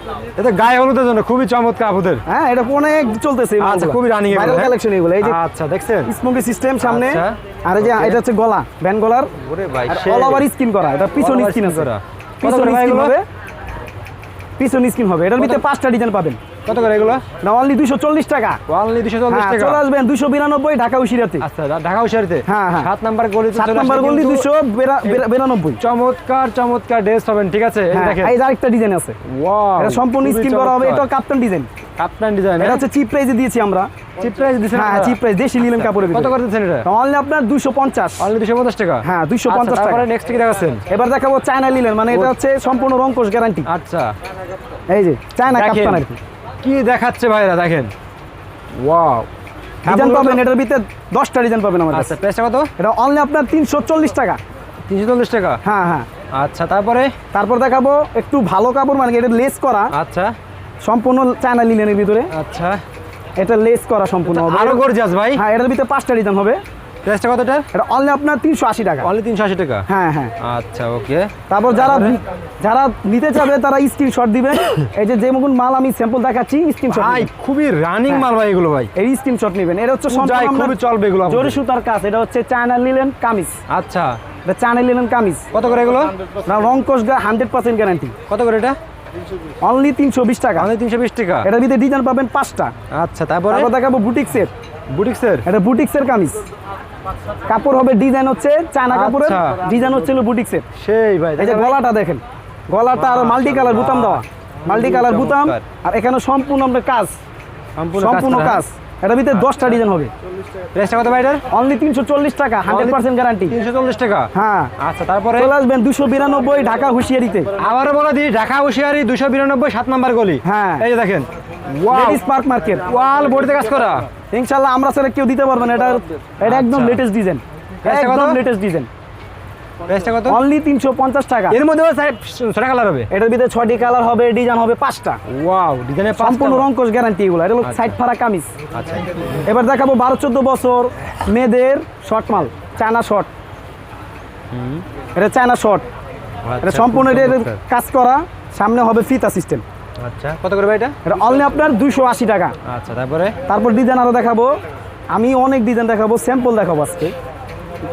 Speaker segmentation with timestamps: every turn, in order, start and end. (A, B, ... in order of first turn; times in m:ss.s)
0:00.4-0:02.2 A
0:02.3-0:05.4 B
0:03.6-0:06.1 A
0:06.1-0:09.3 B
0:06.8-0:08.2 A
0:09.4-0:10.5 A
0:09.9-0:11.9 B
0:11.2-0:13.1 A
0:12.4-0:13.2 B
0:14.6-0:16.4 B
0:16.7-0:17.2 A
0:17.4-0:18.6 B
0:18.7-0:19.8 A
0:19.3-0:21.4 B
0:21.4-0:24.5 A
0:22.5-0:22.9 B
0:23.5-0:25.8 B
0:25.8-0:28.4 A
0:27.9-0:29.2 B
0:29.2-0:31.1 A
0:29.8-0:31.7 B
0:32.0-0:32.8 A
0:32.6-0:33.9 B
0:34.2-0:36.9 A
0:34.7-0:38.3 B
0:38.2-0:40.8 A
0:39.0-0:40.1 B
0:40.9-0:43.7 B
0:43.7-0:44.2 A
0:44.9-0:46.2 B
0:45.5-0:46.0 A
0:46.6-0:47.9 A
0:48.7-0:49.3 A
0:49.8-0:50.4 A
0:49.8-0:52.2 B
0:51.9-0:52.7 A
0:52.8-0:54.4 B
0:54.9-0:55.6 A
0:55.6-0:56.1 B
0:56.4-0:57.1 A
0:57.3-0:59.9 B
0:59.9-1:00.3 A
1:00.8-1:02.3 B
1:02.3-1:02.8 A
1:03.4-1:04.8 B
1:04.3-1:05.4 A
1:05.3-1:06.6 B
1:07.0-1:07.7 A
1:07.7-1:09.1 B
1:09.0-1:09.8 A
1:09.9-1:10.3 B
1:10.4-1:12.1 A
1:11.5-1:17.3 B
1:16.9-1:18.9 A
1:19.0-1:23.6 B
1:20.1-1:21.6 A
1:23.7-1:24.2 A
1:24.5-1:25.5 B
1:25.5-1:26.1 A
1:26.5-1:28.2 B
1:28.3-1:28.8 A
1:29.6-1:30.7 B
1:30.6-1:31.5 A
1:31.4-1:32.7 B
1:32.9-1:33.7 A
1:33.5-1:34.5 B
1:34.9-1:35.4 A
1:35.5-1:36.4 B
1:37.5-1:40.7 B
1:38.9-1:39.8 A
1:40.8-1:41.8 A
1:41.4-1:47.2 B
1:42.9-1:45.6 A
1:47.8-1:48.6 A
1:48.0-1:50.1 B
1:50.7-1:51.4 A
1:51.5-1:53.6 B
1:52.7-1:55.5 A
1:54.3-1:54.7 B
1:55.4-1:57.5 B
1:57.6-2:02.2 A
2:00.4-2:00.9 B
2:01.9-2:02.9 B
2:02.8-2:04.1 A
2:04.3-2:08.9 B
2:06.4-2:07.0 A
2:07.8-2:08.4 A
2:09.9-2:10.4 A
2:10.3-2:11.6 B
2:11.5-2:13.1 A
2:13.1-2:15.2 B
2:15.3-2:16.7 A
2:16.1-2:18.5 B
2:17.6-2:18.0 A
2:18.7-2:19.4 A
2:19.4-2:23.3 B
2:24.5-2:24.8 A
2:25.2-2:25.8 B
2:26.4-2:27.6 A
2:26.6-2:29.6 B
2:30.0-2:31.0 A
2:31.0-2:32.5 B
2:32.6-2:33.4 A
2:33.5-2:34.6 B
2:35.1-2:37.1 B